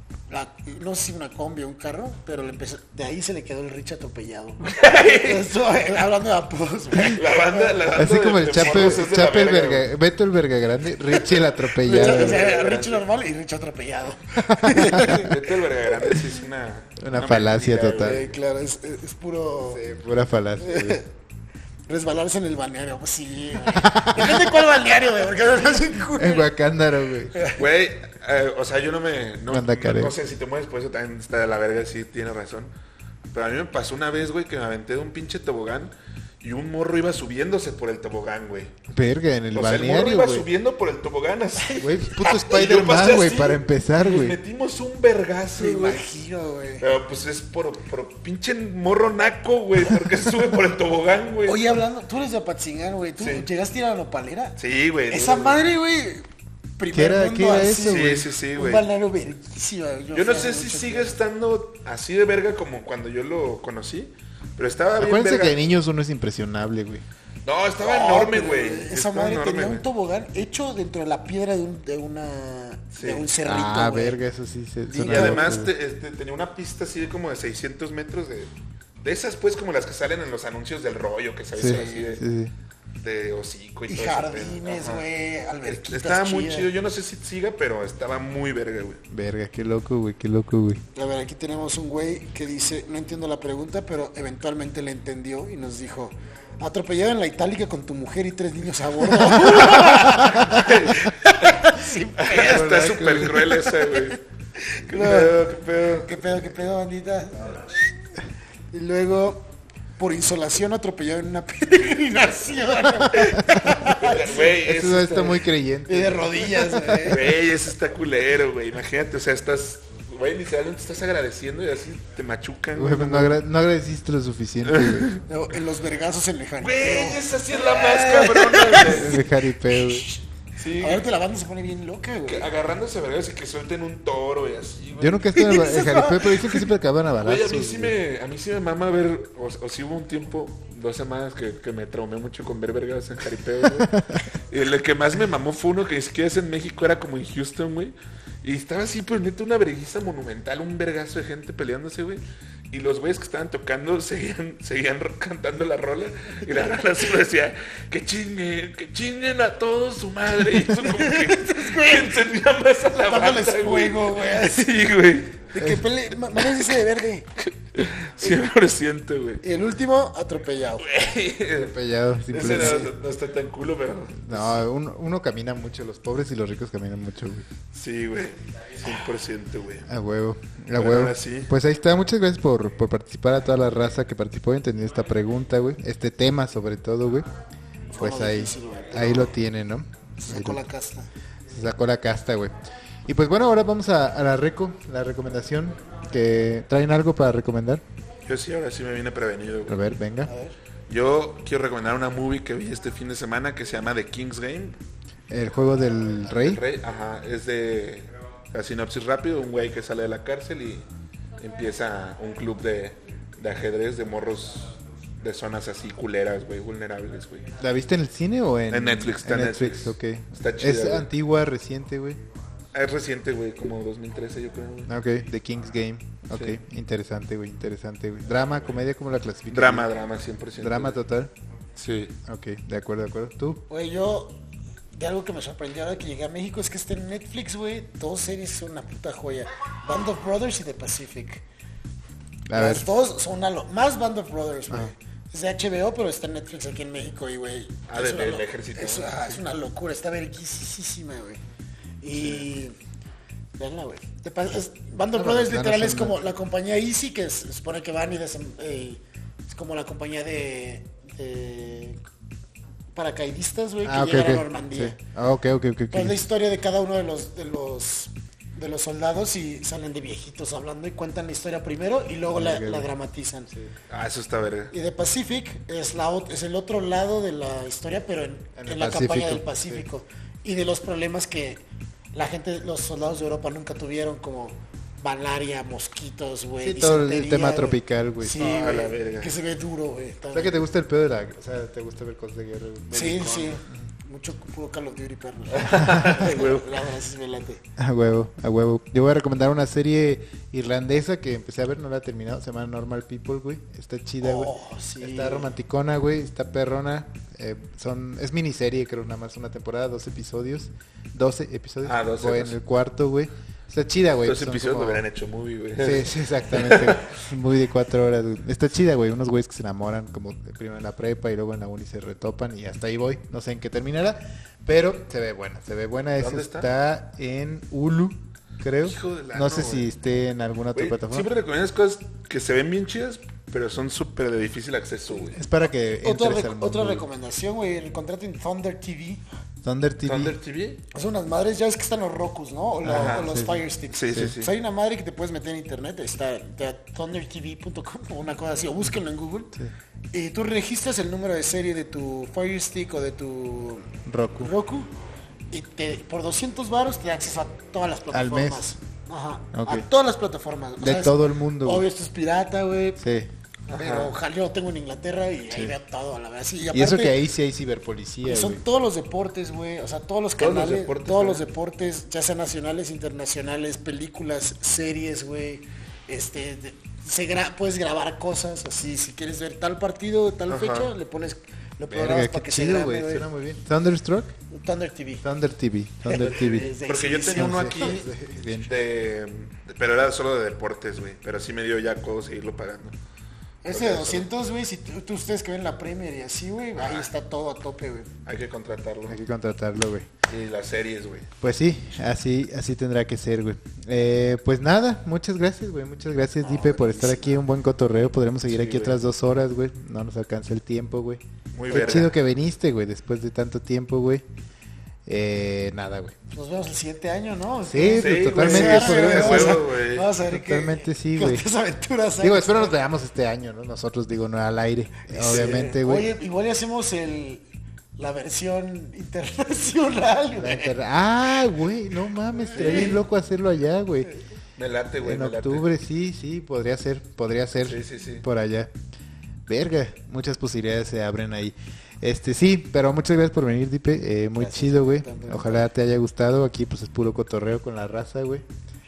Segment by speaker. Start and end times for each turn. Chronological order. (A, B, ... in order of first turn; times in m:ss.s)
0:00.3-0:07.9 A
0:04.6-0:05.5 B
0:07.0-0:09.9 B
0:07.9-0:12.5 C
0:11.6-0:15.5 A
0:11.8-0:13.1 B
0:14.5-0:15.2 C
0:14.8-0:18.3 B
0:17.0-0:18.3 C
0:18.0-0:19.8 A
0:19.6-0:21.0 C
0:20.6-0:21.1 A
0:21.9-0:26.5 A
0:23.7-0:24.5 C
0:26.2-0:27.3 C
0:27.3-0:27.6 A
0:27.6-0:32.7 B
0:29.5-0:30.2 C
0:33.3-0:38.7 B
0:38.9-0:40.5 C
0:39.6-0:46.0 B
0:41.8-0:44.4 C
0:45.6-0:46.9 A
0:46.8-0:51.7 B
0:51.4-0:54.6 A
0:53.2-0:53.5 B
0:54.6-0:55.6 B
0:55.1-0:56.3 A
0:56.8-1:01.2 A
0:56.9-0:58.3 C
0:57.8-0:58.9 B
1:00.1-1:05.6 B
1:05.0-1:07.0 C
1:07.4-1:09.9 B
1:07.8-1:14.2 A
1:12.9-1:13.3 B
1:13.4-1:15.7 C
1:14.9-1:15.6 A
1:15.0-1:22.2 B
1:21.6-1:22.5 C
1:21.6-1:22.2 A
1:23.0-1:25.0 B
1:23.9-1:26.7 A
1:25.7-1:29.0 B
1:29.1-1:30.8 C
1:31.0-1:45.4 A
1:39.3-1:41.5 B
1:42.2-1:44.2 B
1:42.4-1:43.5 C
1:44.9-1:46.3 B
1:46.0-1:47.8 A
1:48.7-1:54.5 A
1:53.1-1:53.6 C
1:53.8-1:55.4 B
1:54.4-1:57.1 C
1:55.0-1:57.4 A
1:57.1-2:03.4 B
2:02.8-2:05.1 C
2:04.7-2:05.2 B
2:05.3-2:10.2 A
2:06.6-2:09.2 B
2:08.8-2:10.1 C
2:10.6-2:11.1 B
2:10.8-2:12.5 A
2:12.3-2:15.6 B
2:15.0-2:18.0 C
2:15.3-2:16.7 A
2:17.2-2:24.0 B
2:23.8-2:24.2 C
2:24.5-2:45.5 B
2:40.8-2:42.3 A
2:43.0-2:44.8 A
2:45.5-2:47.3 A
2:47.4-2:49.4 B
2:49.4-2:50.9 A
2:50.8-2:51.8 B
2:51.6-2:52.9 C
2:52.3-2:54.6 B
2:52.5-2:52.9 A
2:54.2-2:57.5 C
2:57.7-2:59.9 B
2:59.9-3:07.3 C
3:00.8-3:01.5 B
3:07.9-3:09.3 A
3:08.0-3:10.7 C
3:10.2-3:11.1 A
3:11.5-3:12.5 C
3:13.1-3:17.8 C
3:18.3-3:19.8 B
3:19.7-3:20.3 C
3:20.2-3:20.6 A
3:20.9-3:24.8 B
3:25.3-3:26.6 C
3:26.3-3:30.8 B
3:31.4-3:37.5 B
3:37.6-3:42.2 C
3:38.7-3:41.1 B
3:42.7-3:44.9 B
3:44.9-3:49.9 C
3:46.3-3:46.6 B
3:49.5-3:51.0 B
3:50.6-3:51.3 C
3:51.8-3:52.2 B
3:52.2-3:53.6 C
3:53.7-3:54.4 A
3:54.9-4:01.4 A
4:02.5-4:02.9 C
4:02.5-4:11.4 A
4:07.9-4:09.4 B
4:12.0-4:12.8 A
4:12.1-4:12.5 B
4:13.6-4:22.0 A
4:15.1-4:16.2 C
4:23.0-4:25.0 A
4:23.8-4:26.2 C
4:25.9-4:33.5 A
4:32.3-4:32.9 C
4:33.9-4:34.7 B
4:34.7-4:50.6 A
4:38.6-4:39.8 C
4:46.6-4:48.5 C
4:48.4-4:49.3 B
4:50.3-4:53.2 C
4:52.9-4:57.6 A
4:52.9-4:53.6 B
4:55.5-4:56.8 B
4:55.7-4:56.1 C
4:57.8-5:15.0 C
5:04.2-5:05.5 A
5:11.8-5:12.6 B
5:14.2-5:17.0 B
5:15.8-5:31.3 C
5:26.2-5:26.7 B
5:28.8-5:29.9 B
5:30.8-5:35.4 B
5:35.3-5:37.1 C
5:36.0-5:39.2 A
5:39.6-5:40.4 C
5:40.0-5:40.8 B
5:40.9-5:49.6 A
5:42.8-5:44.3 C
5:42.9-5:43.3 B
5:43.9-5:44.5 B
5:50.1-5:53.9 A
5:54.0-5:54.5 C
5:54.4-5:54.9 A
5:55.5-6:03.0 A
5:58.1-5:58.6 C
5:59.5-5:59.8 C
6:00.8-6:01.9 C
6:03.0-6:03.3 C
6:03.7-6:04.1 B
6:03.7-6:07.2 A
6:05.5-6:05.8 C
6:06.7-6:08.6 C
6:08.2-6:23.3 A
6:10.4-6:11.4 B
6:20.5-6:20.9 B
6:21.9-6:24.4 C
6:24.5-6:25.3 A
6:25.2-6:26.7 C
6:26.1-6:28.0 A
6:26.1-6:28.1 B
6:27.3-6:28.7 C
6:28.6-6:32.9 B
6:33.6-6:38.1 A
6:33.7-6:34.3 B
6:36.8-6:37.1 B
6:38.3-6:39.2 B
6:39.1-6:40.1 C
6:40.3-6:41.3 B
6:41.4-6:54.2 C
6:46.4-6:47.4 A
6:48.5-6:49.0 B
6:51.5-6:52.1 B
6:51.7-6:52.0 A
6:55.1-6:56.2 C
6:56.3-7:02.8 A
6:57.7-6:59.7 C
6:58.0-7:00.1 B
7:00.3-7:01.5 C
7:02.2-7:06.1 C
7:05.1-7:07.4 A
7:05.3-7:05.6 B
7:08.0-7:10.7 A
7:10.4-7:14.1 C
7:12.5-7:13.0 A
7:12.5-7:13.0 B
7:14.6-7:15.7 B
7:15.0-7:18.7 C
7:17.6-7:18.2 B
7:19.5-7:28.4 C
7:24.4-7:25.7 A